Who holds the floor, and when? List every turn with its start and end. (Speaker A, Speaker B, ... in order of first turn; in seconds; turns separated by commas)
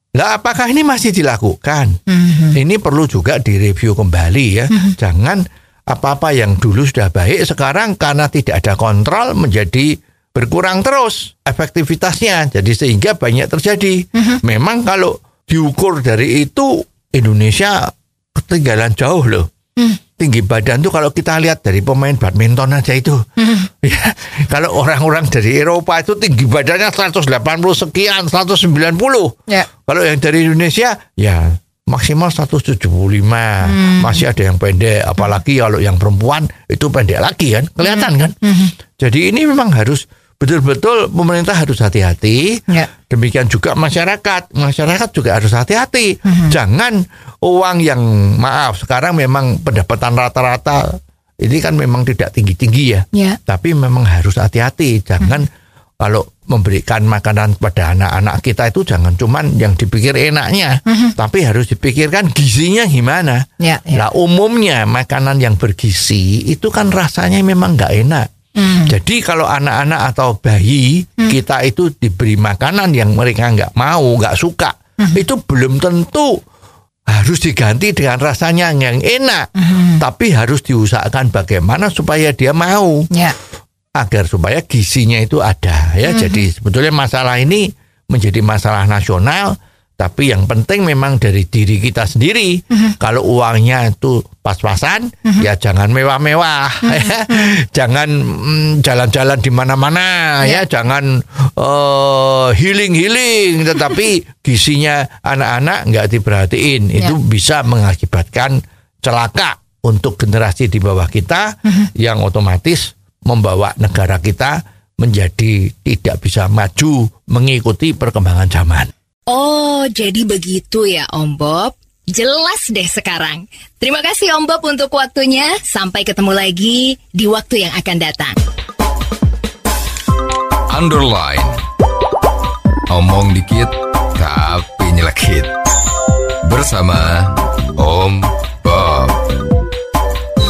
Speaker A: 0.1-1.9, Speaker B: 2.1-2.6, Speaker A: 2.5-19.5, Speaker A: 20.2-29.4, Speaker B: 23.4-23.7, Speaker A: 29.9-38.4, Speaker B: 33.7-34.2, Speaker B: 37.9-38.7, Speaker A: 39.0-55.5, Speaker B: 46.3-46.5, Speaker B: 53.1-53.4, Speaker A: 56.0-68.3, Speaker B: 60.9-61.1, Speaker B: 63.6-64.1, Speaker B: 68.6-68.9, Speaker A: 68.9-76.4, Speaker A: 77.1-83.1, Speaker B: 79.6-80.0, Speaker A: 84.0-118.9, Speaker B: 86.1-86.4, Speaker B: 96.8-97.5, Speaker B: 119.3-128.4, Speaker C: 130.7-131.6, Speaker C: 132.9-135.5, Speaker C: 136.4-139.2